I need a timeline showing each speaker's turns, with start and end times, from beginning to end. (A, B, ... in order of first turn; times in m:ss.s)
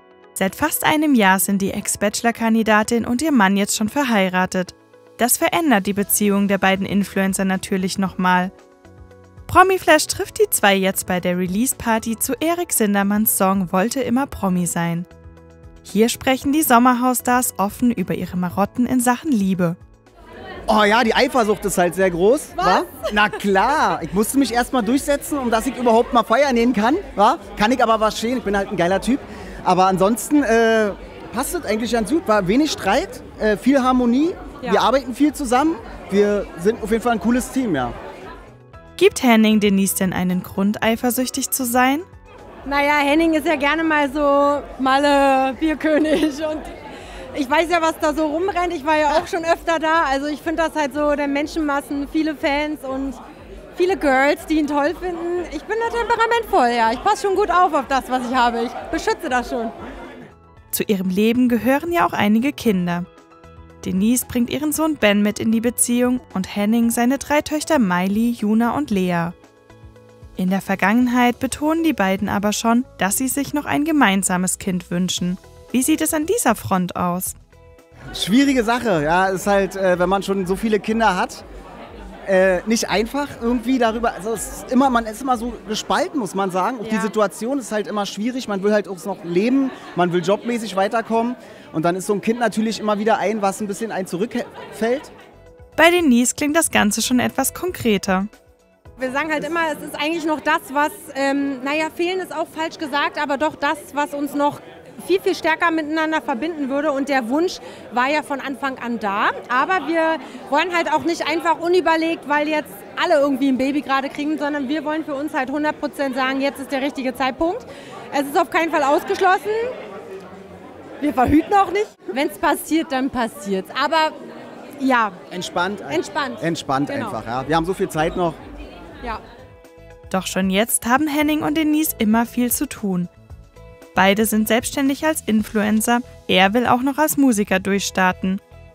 0:00.4-0:08.5 A
0:09.5-0:15.1 A
0:15.8-0:19.8 A
0:20.7-0:38.0 B
0:22.6-0:23.4 C
0:39.0-0:42.1 A
0:42.6-0:46.7 C
0:47.3-0:53.2 C
0:53.8-0:59.8 C
1:00.7-1:03.1 A
1:03.8-1:09.3 A
1:10.4-1:17.4 A
1:18.1-1:21.4 B
1:22.2-1:35.1 B
1:26.9-1:27.1 C
1:35.8-1:38.3 A
1:39.0-1:59.7 C
2:01.0-2:04.2 C
2:04.8-2:05.2 C
2:05.3-2:08.4 B
2:05.9-2:07.2 C
2:10.1-2:13.1 A
2:13.9-2:18.4 A